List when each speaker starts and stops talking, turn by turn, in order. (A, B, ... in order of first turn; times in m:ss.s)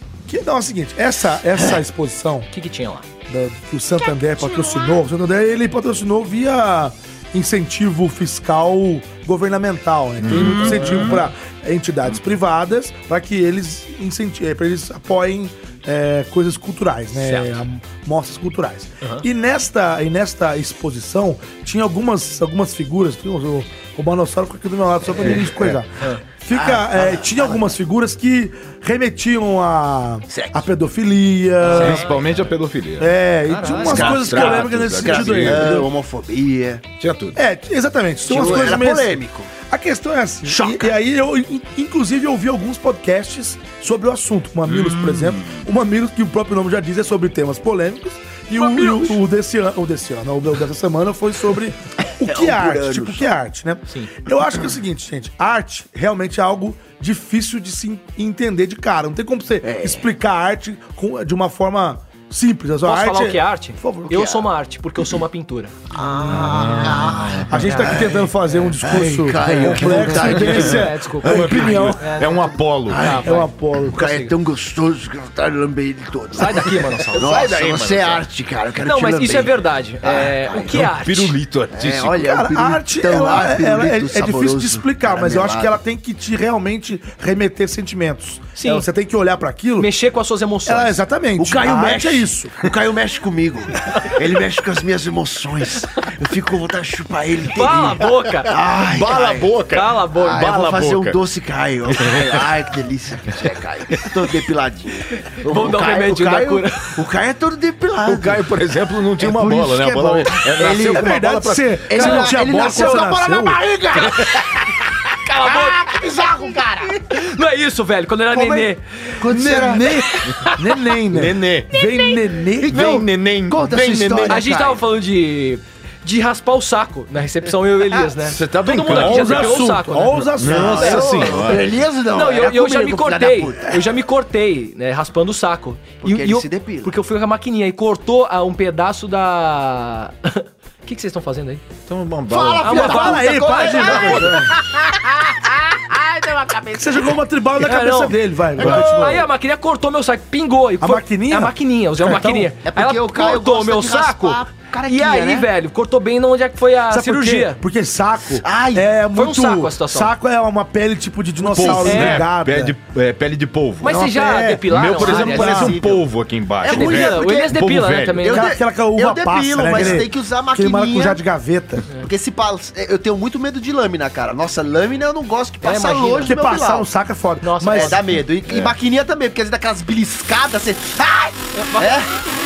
0:00.3-0:02.5 A
0:02.5-0:03.0 B
0:03.3-0:32.1 A
0:10.2-0:11.2 C
0:10.3-0:11.1 B
0:17.2-0:17.6 B
0:25.2-0:25.7 C
0:26.5-0:27.7 D
0:30.3-0:30.6 D
0:31.7-0:32.2 B
0:31.7-0:33.1 C
0:33.0-0:35.9 A
0:33.5-0:34.2 B
0:33.7-0:35.8 C
0:33.8-0:36.8 D
0:37.0-0:37.4 C
0:37.4-1:04.2 A
0:38.2-0:39.5 D
0:40.4-0:40.9 D
0:44.7-0:45.2 C
0:48.6-0:49.0 D
0:52.2-0:53.3 D
0:59.6-1:00.0 D
1:02.8-1:05.7 B
1:04.1-1:04.4 D
1:05.9-1:08.2 D
1:06.3-1:07.5 C
1:07.5-1:12.0 A
1:07.6-1:08.1 B
1:08.8-1:11.6 D
1:09.6-1:13.2 C
1:10.2-1:14.3 B
1:12.9-1:20.8 D
1:13.2-1:14.0 A
1:16.3-1:17.4 B
1:17.1-1:18.2 C
1:18.8-1:21.3 B
1:20.6-1:22.3 C
1:21.7-1:25.7 D
1:22.2-1:29.9 A
1:28.6-1:28.8 B
1:29.8-1:31.0 B
1:30.6-1:32.6 A
1:31.4-1:39.5 D
1:37.4-1:38.5 B
1:38.8-1:41.2 C
1:39.7-1:40.5 B
1:40.1-1:48.4 D
1:41.9-1:42.4 C
1:45.4-1:47.0 B
1:48.0-1:52.3 C
1:49.2-1:53.6 A
1:50.5-1:57.2 D
1:52.0-1:53.1 B
1:55.3-1:55.9 B
1:57.1-1:58.8 B
1:58.3-2:00.2 D
1:59.2-2:03.0 A
1:59.8-2:00.8 B
2:01.1-2:01.7 C
2:02.6-2:04.5 C
2:02.6-2:04.8 D
2:04.2-2:10.3 B
2:08.2-2:11.7 C
2:08.8-2:11.3 A
2:10.4-2:13.8 D
2:12.1-2:21.6 B
2:16.0-2:16.9 D
2:21.9-2:22.8 C
2:22.3-2:27.1 D
2:22.6-2:24.3 B
2:22.6-2:24.5 A
2:26.7-2:29.3 A
2:27.6-2:37.6 B
2:30.8-2:32.5 A
2:32.6-2:35.5 D
2:36.9-2:42.7 A
2:38.4-2:38.9 D
2:39.1-2:40.1 B
2:41.5-2:44.1 C
2:41.7-2:42.2 B
2:43.8-2:45.8 B
2:43.8-2:45.8 A
2:44.7-2:48.2 C
2:45.0-2:46.0 D
2:46.6-2:47.6 D
2:46.6-2:48.5 B
2:48.2-2:51.2 D
2:48.2-2:51.8 A
2:49.7-2:50.0 C
2:52.0-2:56.9 D
2:55.6-2:56.5 B
2:56.2-2:58.0 A
2:57.4-2:58.0 B
2:57.7-3:02.1 D
2:58.4-2:58.7 C
3:01.5-3:02.0 B